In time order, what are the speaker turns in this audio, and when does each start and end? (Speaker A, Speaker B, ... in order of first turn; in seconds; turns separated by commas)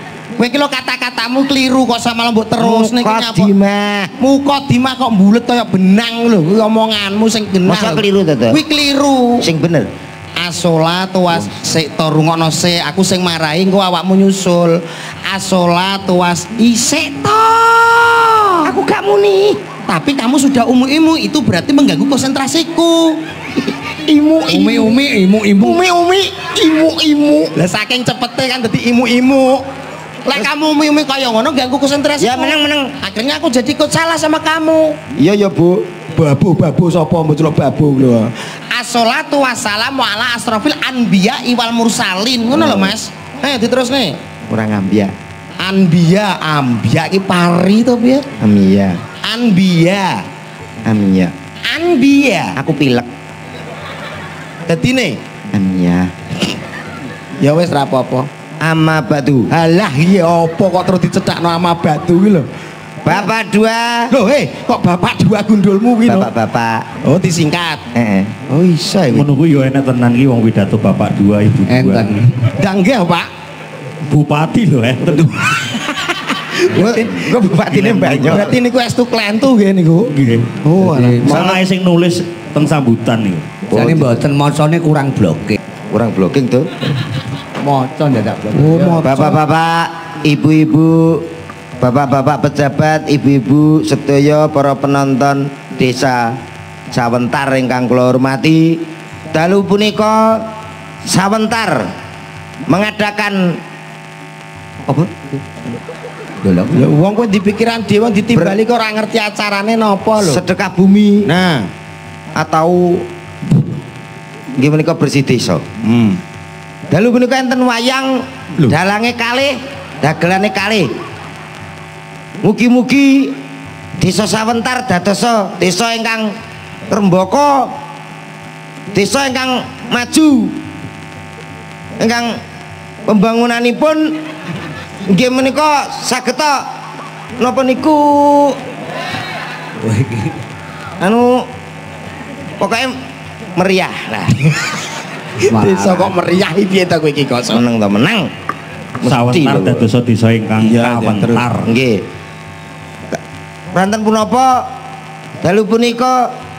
Speaker A: 0.4-3.5, Speaker B: 2.6-4.1, Speaker A: 4.2-9.5, Speaker B: 7.6-8.6, Speaker B: 9.4-9.9, Speaker A: 10.4-18.8, Speaker B: 18.6-19.6, Speaker A: 19.9-23.2, Speaker B: 23.9-25.0, Speaker C: 24.4-25.8, Speaker B: 25.6-27.5, Speaker A: 27.6-29.6, Speaker A: 30.2-35.0, Speaker B: 32.2-33.0, Speaker B: 35.1-35.9, Speaker A: 36.1-44.1, Speaker B: 42.5-42.9, Speaker B: 44.5-45.1, Speaker A: 45.6-48.3, Speaker B: 48.4-49.0, Speaker A: 49.2-50.2, Speaker B: 50.8-51.3, Speaker A: 51.7-52.5, Speaker B: 52.5-53.1, Speaker A: 54.7-55.2, Speaker B: 55.5-56.1, Speaker A: 57.4-58.3, Speaker B: 58.6-59.5, Speaker A: 59.5-62.5, Speaker B: 63.0-64.1, Speaker A: 64.1-66.3, Speaker B: 66.0-66.8, Speaker A: 67.0-67.8, Speaker B: 67.9-68.3, Speaker A: 68.5-69.2, Speaker D: 69.1-72.1, Speaker C: 71.6-72.5, Speaker A: 72.6-73.3, Speaker D: 74.1-75.7, Speaker A: 75.6-77.2, Speaker B: 76.7-78.5, Speaker D: 77.7-78.4, Speaker A: 78.2-81.6, Speaker D: 80.1-80.6, Speaker C: 80.8-81.4, Speaker D: 81.2-83.6, Speaker B: 81.3-81.6, Speaker B: 83.7-84.1, Speaker C: 83.7-85.6, Speaker B: 85.9-86.7, Speaker C: 87.6-89.0, Speaker A: 88.5-89.4, Speaker B: 89.0-91.2, Speaker B: 91.8-96.4, Speaker B: 96.9-100.4, Speaker B: 101.1-101.8, Speaker B: 102.7-103.6, Speaker B: 104.8-105.3, Speaker C: 106.4-106.7, Speaker A: 106.7-110.4, Speaker B: 110.2-111.3, Speaker A: 111.3-111.7, Speaker B: 112.3-113.0, Speaker B: 114.6-115.6, Speaker A: 115.8-116.2, Speaker B: 116.9-120.9, Speaker B: 122.4-123.3, Speaker B: 124.0-126.3, Speaker B: 126.9-127.7, Speaker B: 128.9-130.6, Speaker B: 132.0-132.4, Speaker B: 133.1-134.1, Speaker B: 135.1-136.6, Speaker B: 137.4-138.6, Speaker C: 139.8-140.4, Speaker B: 141.0-141.4, Speaker B: 142.6-142.9, Speaker B: 143.6-144.4, Speaker A: 145.4-147.6, Speaker C: 145.4-146.1, Speaker B: 147.5-148.3, Speaker D: 149.0-151.7, Speaker B: 149.0-149.8, Speaker A: 150.6-151.4, Speaker B: 151.6-152.0, Speaker B: 153.7-154.6, Speaker B: 155.4-156.3